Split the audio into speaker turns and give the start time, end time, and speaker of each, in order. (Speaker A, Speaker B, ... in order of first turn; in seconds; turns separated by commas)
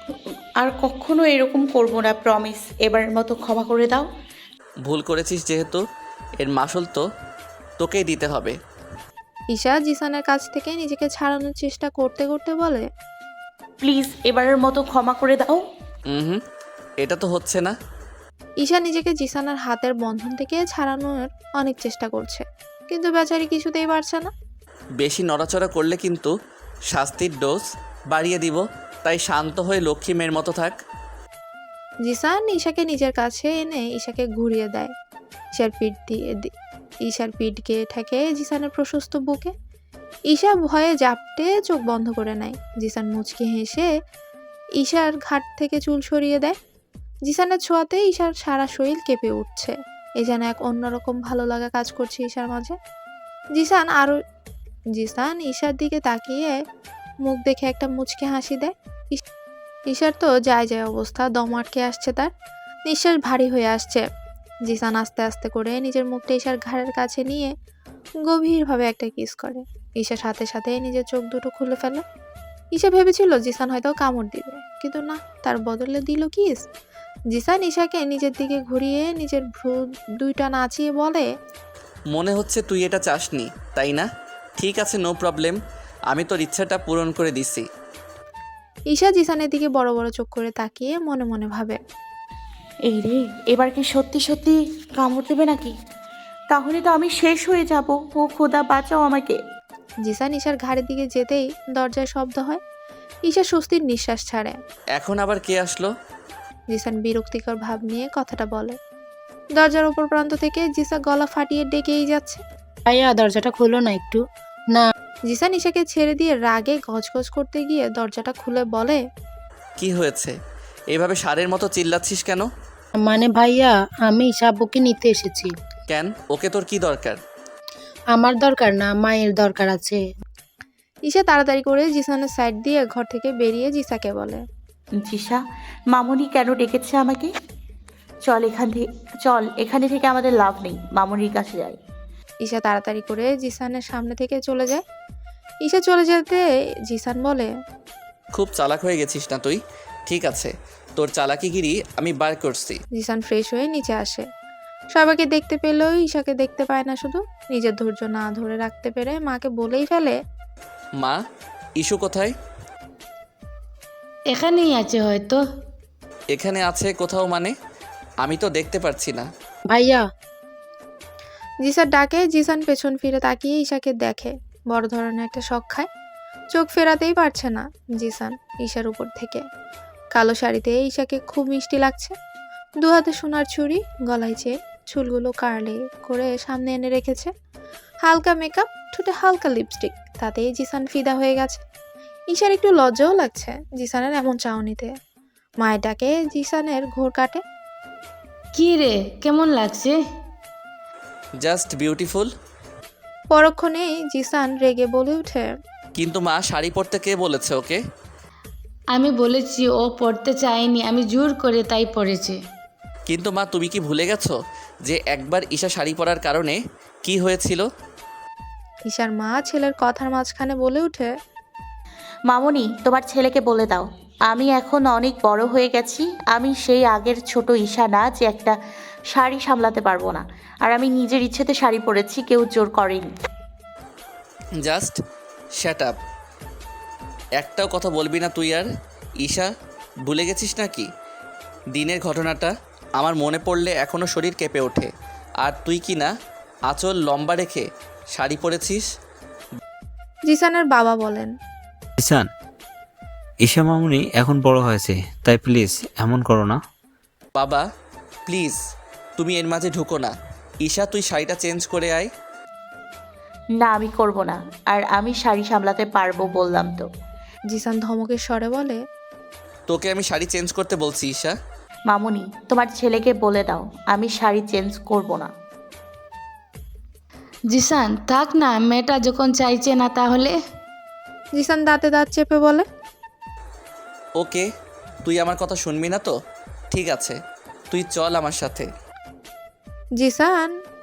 Speaker A: 0.6-4.1, Speaker B: 4.8-5.8, Speaker B: 6.4-7.0, Speaker B: 7.8-8.6, Speaker C: 9.5-12.9, Speaker A: 13.8-15.6, Speaker B: 16.1-16.4, Speaker B: 17.0-17.7, Speaker C: 18.6-24.3, Speaker B: 25.0-26.3, Speaker B: 26.9-30.8, Speaker C: 32.0-34.9, Speaker C: 35.5-36.5, Speaker C: 37.0-39.5, Speaker C: 40.3-43.9, Speaker C: 44.8-46.5, Speaker C: 47.3-52.8, Speaker C: 53.5-54.1, Speaker C: 55.0-56.5, Speaker C: 57.2-59.2, Speaker C: 59.9-62.3, Speaker C: 62.9-64.0, Speaker C: 64.7-67.5, Speaker C: 68.2-72.0, Speaker C: 72.7-76.6, Speaker C: 77.3-81.2, Speaker B: 82.1-84.1, Speaker B: 84.6-85.6, Speaker B: 86.1-87.7, Speaker C: 88.9-91.8, Speaker A: 92.9-95.7, Speaker A: 96.5-99.3, Speaker C: 100.0-102.6, Speaker C: 103.2-104.5, Speaker B: 105.0-105.9, Speaker C: 106.7-108.8, Speaker C: 109.6-112.4, Speaker D: 112.9-114.8, Speaker C: 115.3-119.0, Speaker B: 119.8-120.3, Speaker B: 120.9-122.5, Speaker D: 123.0-125.5, Speaker B: 125.9-127.2, Speaker D: 128.1-130.0, Speaker C: 131.1-134.4, Speaker A: 135.0-135.4, Speaker A: 135.9-137.3, Speaker A: 138.2-141.8, Speaker C: 142.4-144.8, Speaker C: 145.6-147.5, Speaker B: 148.3-152.8, Speaker C: 152.9-154.2, Speaker C: 154.9-160.1, Speaker B: 161.8-162.3, Speaker E: 164.3-165.4, Speaker B: 166.3-167.5, Speaker B: 168.2-169.2, Speaker D: 169.7-170.0, Speaker C: 171.6-175.9, Speaker C: 176.5-179.4, Speaker C: 180.2-182.1, Speaker C: 182.8-187.3, Speaker C: 188.0-191.6, Speaker C: 192.3-194.9, Speaker C: 195.6-197.4, Speaker E: 198.5-200.0, Speaker B: 201.4-202.3, Speaker C: 203.3-205.4, Speaker B: 206.0-207.8, Speaker E: 208.9-212.4, Speaker B: 213.1-217.7, Speaker C: 218.9-221.1, Speaker A: 222.3-228.5, Speaker A: 229.1-233.1, Speaker B: 234.6-235.0, Speaker B: 235.6-235.9, Speaker B: 237.4-238.7, Speaker B: 239.2-239.5, Speaker B: 240.1-240.9, Speaker B: 241.7-244.9, Speaker B: 245.4-246.1, Speaker B: 246.7-248.8, Speaker C: 250.3-251.3, Speaker F: 252.0-252.3, Speaker F: 253.4-256.6, Speaker B: 257.4-257.6, Speaker B: 258.3-258.6, Speaker B: 259.2-260.1, Speaker B: 260.6-262.1, Speaker A: 263.6-266.9, Speaker C: 267.5-268.8, Speaker B: 269.7-271.4, Speaker A: 271.9-275.3, Speaker E: 277.5-280.4, Speaker C: 281.4-282.6, Speaker B: 284.2-284.5, Speaker B: 285.0-286.1, Speaker B: 286.7-287.2, Speaker B: 287.7-288.7, Speaker C: 290.0-290.5